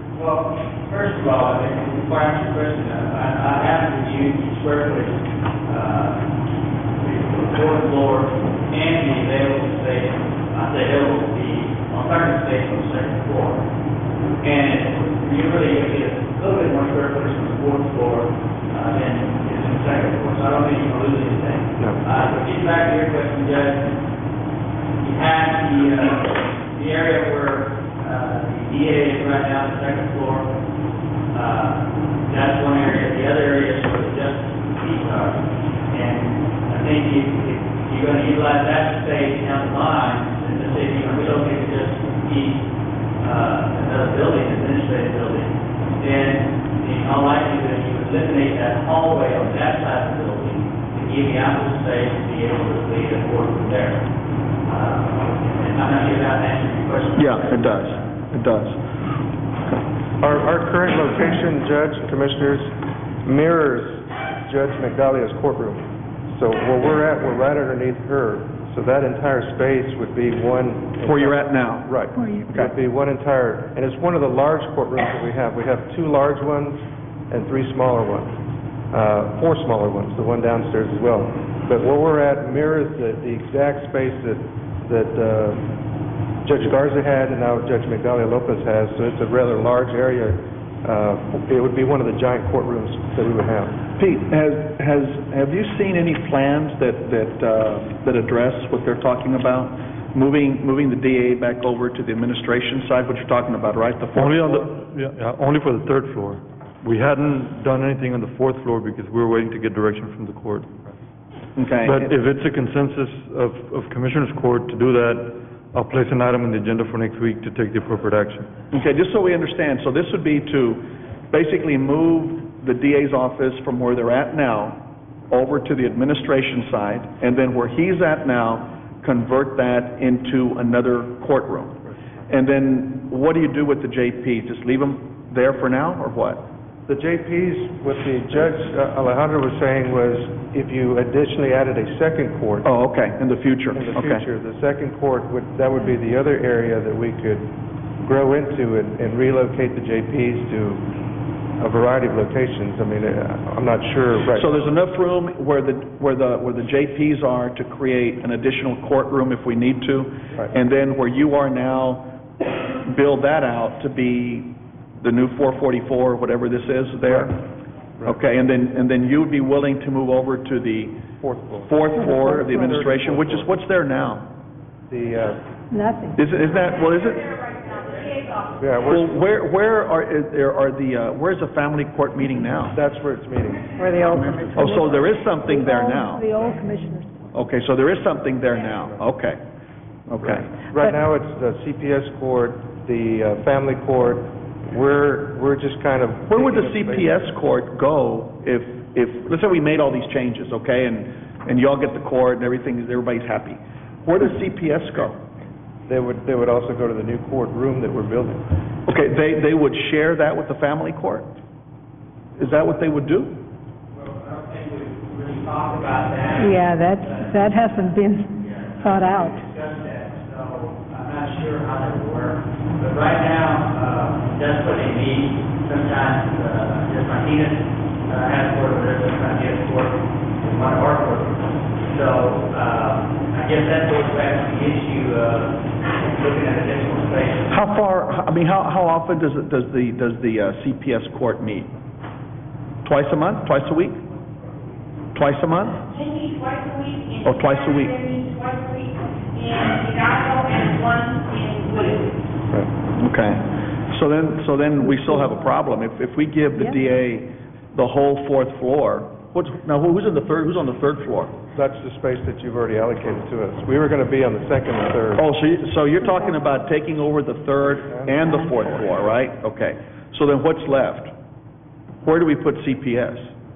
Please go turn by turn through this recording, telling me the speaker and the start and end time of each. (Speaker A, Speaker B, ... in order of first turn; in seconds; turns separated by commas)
Speaker A: 0.1-6.2, Speaker A: 7.0-13.6, Speaker A: 14.4-23.9, Speaker B: 21.8-22.0, Speaker A: 25.0-30.5, Speaker A: 31.3-42.6, Speaker A: 43.2-54.0, Speaker A: 54.6-58.0, Speaker C: 57.2-58.8, Speaker B: 60.2-78.4, Speaker C: 71.0-72.7, Speaker D: 72.2-72.5, Speaker B: 78.9-85.7, Speaker B: 86.4-93.8, Speaker C: 94.0-104.8, Speaker E: 104.1-110.7, Speaker C: 111.5-112.1, Speaker E: 111.8-118.5, Speaker C: 118.7-136.5, Speaker B: 136.9-142.7, Speaker C: 142.6-144.2, Speaker B: 143.7-150.9, Speaker B: 151.6-154.5, Speaker C: 154.3-162.1, Speaker C: 162.8-167.4, Speaker C: 168.0-171.1, Speaker B: 171.2-173.5, Speaker C: 171.6-174.3, Speaker D: 172.0-172.8, Speaker B: 174.9-175.4, Speaker D: 175.7-176.2, Speaker C: 176.1-177.4, Speaker F: 177.1-178.6, Speaker A: 177.7-178.2, Speaker B: 178.6-179.2, Speaker C: 178.8-182.8, Speaker B: 182.7-183.7, Speaker D: 183.8-187.3, Speaker C: 184.5-186.3, Speaker C: 187.3-189.4, Speaker C: 190.1-190.5, Speaker B: 190.2-197.1, Speaker C: 196.3-205.2, Speaker B: 205.9-208.5, Speaker C: 208.8-211.3, Speaker C: 212.4-213.3, Speaker A: 213.9-217.6, Speaker D: 216.4-219.4, Speaker A: 218.3-237.5, Speaker C: 237.5-241.7, Speaker C: 242.8-244.0, Speaker C: 245.1-245.8, Speaker F: 245.9-252.1, Speaker C: 247.2-248.0, Speaker C: 253.0-261.3, Speaker D: 254.8-255.5, Speaker D: 256.6-256.9, Speaker B: 261.5-265.2, Speaker C: 265.2-271.1, Speaker B: 267.8-268.6, Speaker C: 272.0-273.3